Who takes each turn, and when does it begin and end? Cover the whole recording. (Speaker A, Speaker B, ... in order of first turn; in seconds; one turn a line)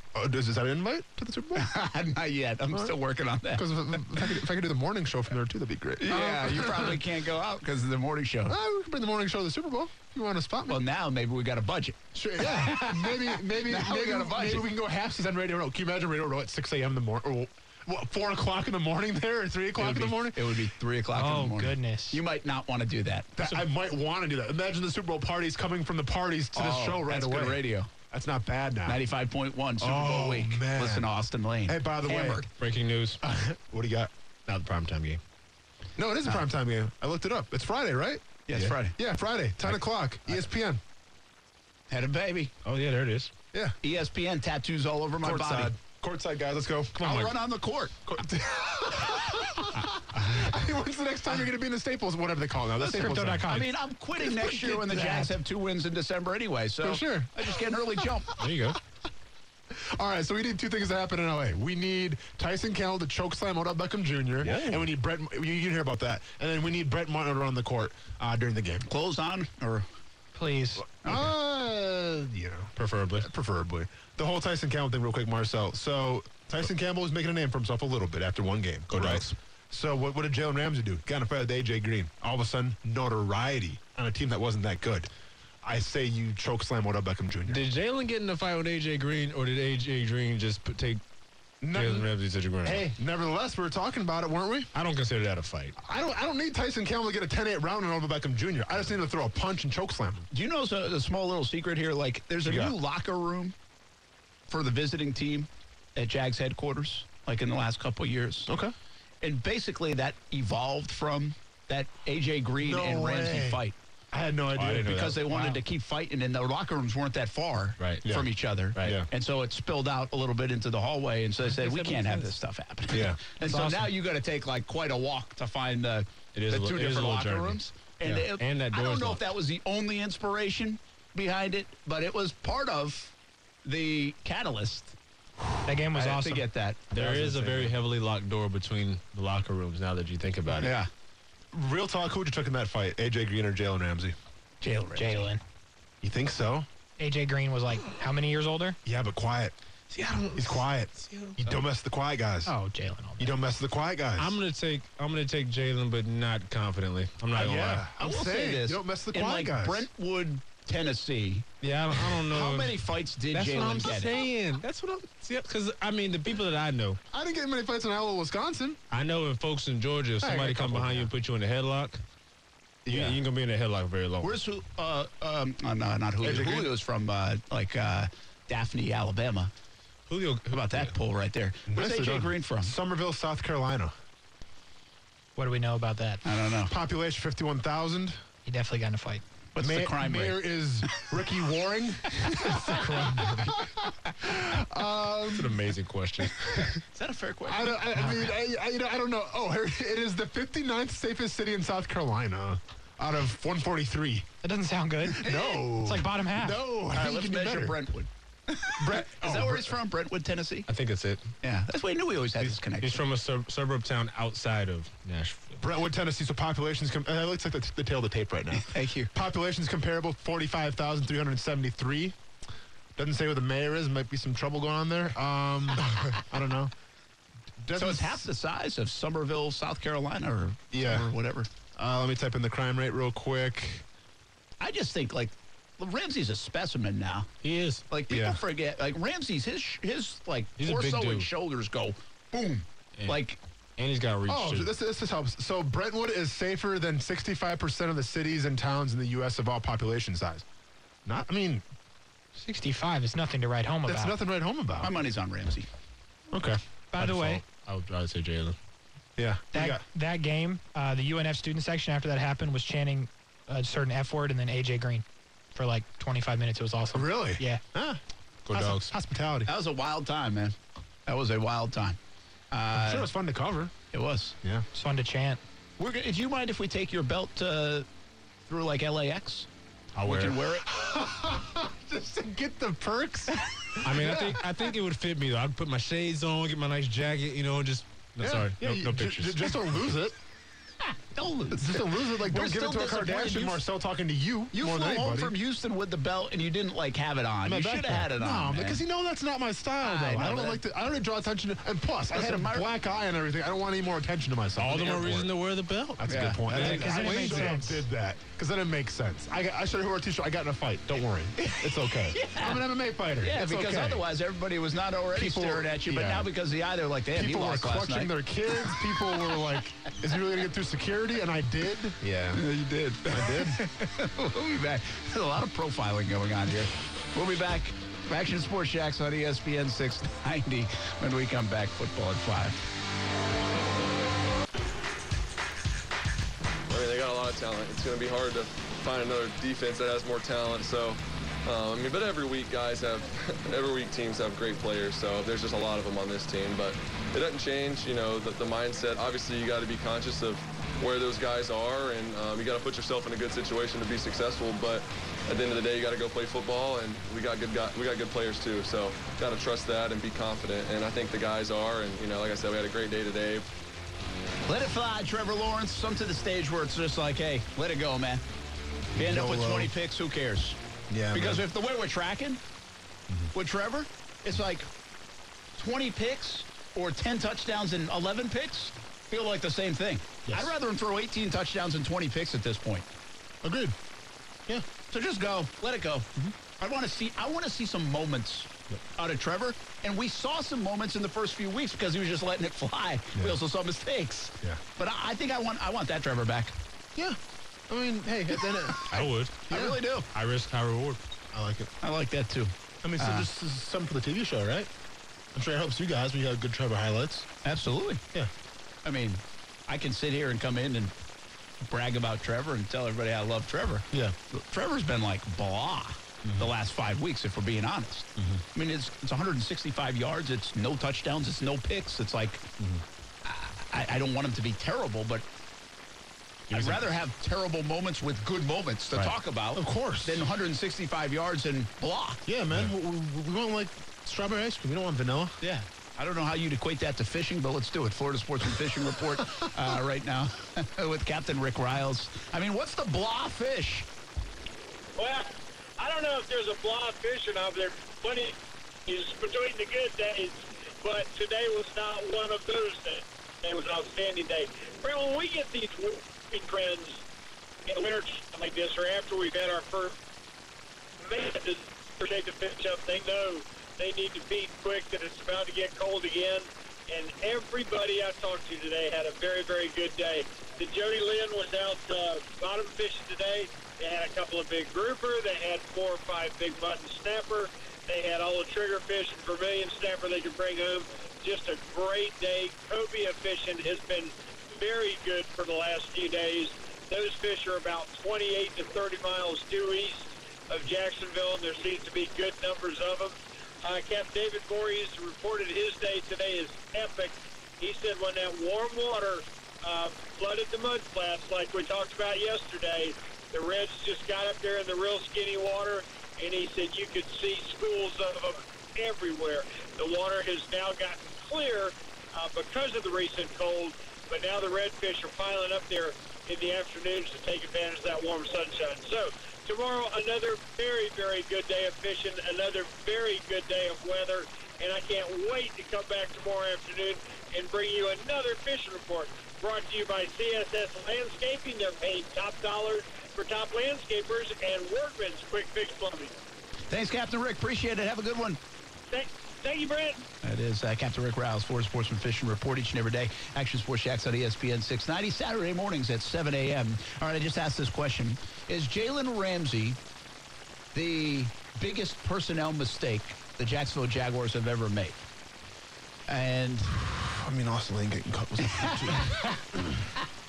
Speaker A: 0.1-1.7
Speaker B: 1.6-4.3
Speaker A: 3.5-7.0
Speaker B: 6.0-8.6
Speaker A: 8.5-10.8
Speaker B: 10.7-14.7
Speaker A: 12.1-20.5
Speaker B: 19.8-23.3
Speaker C: 21.1-22.2
Speaker A: 23.4-29.0
Speaker B: 26.5-27.9
Speaker B: 28.9-32.5
Speaker A: 29.8-31.1
Speaker A: 31.7-32.4
Speaker D: 32.6-33.2
Speaker A: 33.2-34.1
Speaker D: 34.5-35.2
Speaker A: 36.0-40.8
Speaker B: 38.5-39.0
Speaker B: 41.9-42.5
Speaker D: 42.6-43.3
Speaker B: 43.8-45.7
Speaker A: 45.2-47.3
Speaker B: 47.0-48.0
Speaker A: 48.0-53.6
Speaker C: 52.8-53.7
Speaker B: 53.5-58.3
Speaker A: 54.2-55.1
Speaker C: 54.8-55.3
Speaker A: 56.8-58.6
Speaker D: 58.4-58.8
Speaker A: 59.7-68.9
Speaker D: 64.4-64.9
Speaker B: 68.9-69.8
Speaker C: 70.3-70.8
Speaker A: 71.0-85.1
Speaker D: 72.8-73.3
Speaker D: 78.9-79.3
Speaker A: 85.6-87.6
Speaker D: 87.5-91.0
Speaker A: 91.6-92.1
Speaker D: 91.7-92.8
Speaker A: 92.6-94.7
Speaker D: 94.7-95.8
Speaker A: 95.8-100.2
Speaker B: 100.3-103.5
Speaker A: 102.4-102.7
Speaker B: 104.5-108.5
Speaker A: 108.5-108.7
Speaker B: 109.2-113.8
Speaker A: 112.6-115.0
Speaker D: 114.5-115.4
Speaker B: 114.8-133.1
Speaker D: 117.8-118.0
Speaker A: 118.0-118.3
Speaker D: 118.8-119.0
Speaker A: 118.8-119.1
Speaker D: 121.5-122.3
Speaker A: 122.9-123.3
Speaker D: 126.3-129.3
Speaker B: 133.6-134.9
Speaker C: 135.6-136.4
Speaker B: 135.9-137.8
Speaker D: 136.9-140.7
Speaker B: 140.6-140.9
Speaker A: 141.5-144.2
Speaker B: 144.6-145.3
Speaker C: 144.9-145.4
Speaker A: 146.0-146.7
Speaker C: 147.0-148.8
Speaker A: 148.8-149.5
Speaker D: 149.9-151.4
Speaker A: 150.3-152.5
Speaker C: 152.4-153.3
Speaker A: 153.2-154.4
Speaker D: 154.2-157.8
Speaker A: 157.3-159.9
Speaker B: 158.0-161.4
Speaker D: 161.6-162.8
Speaker B: 162.3-164.2
Speaker D: 163.3-167.0
Speaker A: 167.1-168.8
Speaker D: 168.9-172.0
Speaker A: 170.2-171.1
Speaker A: 172.8-173.2
Speaker D: 172.9-174.4
Speaker B: 174.2-179.5
Speaker A: 176.2-176.7
Speaker D: 180.1-180.9
Speaker B: 180.5-182.7
Speaker A: 181.7-183.9
Speaker C: 185.3-186.2
Speaker B: 186.2-186.7
Speaker A: 186.7-188.2
Speaker C: 188.4-189.2
Speaker B: 189.5-190.4
Speaker A: 189.6-195.6
Speaker D: 195.3-196.7
Speaker B: 196.9-197.8
Speaker A: 197.4-204.3
Speaker C: 198.0-198.2
Speaker C: 204.4-206.6
Speaker A: 205.1-207.8
Speaker B: 205.2-205.5
Speaker B: 206.9-210.7
Speaker A: 208.8-209.8
Speaker D: 210.7-211.3
Speaker B: 211.4-213.0
Speaker D: 212.4-215.6
Speaker A: 215.6-222.2
Speaker B: 218.6-219.1
Speaker A: 222.9-226.7
Speaker A: 227.6-228.2
Speaker B: 227.7-231.5
Speaker A: 230.7-231.1
Speaker A: 231.8-233.8
Speaker B: 234.6-237.3
Speaker D: 237.4-237.9
Speaker B: 237.9-243.4
Speaker D: 240.6-241.3
Speaker D: 243.8-244.7
Speaker A: 244.3-250.4
Speaker A: 251.1-251.6
Speaker C: 252.3-254.2
Speaker A: 253.8-254.9
Speaker B: 254.8-255.7
Speaker A: 256.3-256.6
Speaker C: 256.9-257.4
Speaker D: 256.9-258.6
Speaker A: 259.2-259.8
Speaker C: 259.5-267.6
Speaker A: 266.9-269.5
Speaker D: 268.4-268.9
Speaker B: 269.4-270.5
Speaker B: 271.1-272.0
Speaker B: 272.5-273.1
Speaker A: 272.7-273.7
Speaker B: 273.9-274.4
Speaker C: 274.7-275.4
Speaker B: 275.8-277.9
Speaker B: 278.5-279.5
Speaker D: 279.9-280.4
Speaker B: 280.0-280.6
Speaker A: 280.6-284.5
Speaker D: 283.8-289.7
Speaker A: 288.2-290.1
Speaker B: 290.8-293.6
Speaker A: 291.5-295.3
Speaker B: 294.5-298.8
Speaker A: 297.4-305.3
Speaker B: 299.8-300.6
Speaker B: 302.1-302.7
Speaker D: 304.6-307.6
Speaker A: 306.0-314.0
Speaker B: 306.1-306.7
Speaker C: 306.5-307.8
Speaker B: 311.4-312.6
Speaker B: 313.2-319.4
Speaker A: 315.1-316.3
Speaker A: 317.1-322.4
Speaker B: 322.3-332.6
Speaker A: 323.1-323.6
Speaker E: 336.7-363.5
Speaker B: 364.5-368.2
Speaker B: 368.9-370.6
Speaker A: 368.9-369.7
Speaker A: 370.9-371.4
Speaker B: 371.1-372.4
Speaker B: 373.3-374.7
Speaker B: 375.6-382.9
Speaker A: 383.4-383.8
Speaker B: 384.9-396.6
Speaker A: 397.7-399.8
Speaker B: 398.4-398.8
Speaker D: 398.9-399.4
Speaker B: 399.5-400.1
Speaker D: 400.1-401.0
Speaker A: 401.3-401.7
Speaker B: 401.8-403.3
Speaker A: 402.8-404.7
Speaker A: 405.3-407.3
Speaker B: 407.4-408.0
Speaker B: 408.8-410.9
Speaker B: 411.6-422.5
Speaker A: 416.2-416.5
Speaker A: 418.2-418.4
Speaker B: 423.2-425.2
Speaker B: 426.5-432.2
Speaker A: 426.5-426.9
Speaker A: 429.5-430.2
Speaker A: 432.2-435.4
Speaker B: 435.4-443.9
Speaker F: 445.0-457.0
Speaker F: 457.7-460.0
Speaker F: 461.0-536.1
Speaker B: 536.7-538.4
Speaker F: 538.9-540.0
Speaker B: 540.2-549.8
Speaker B: 550.7-555.0
Speaker B: 556.1-556.7
Speaker A: 556.7-559.8
Speaker B: 558.4-559.4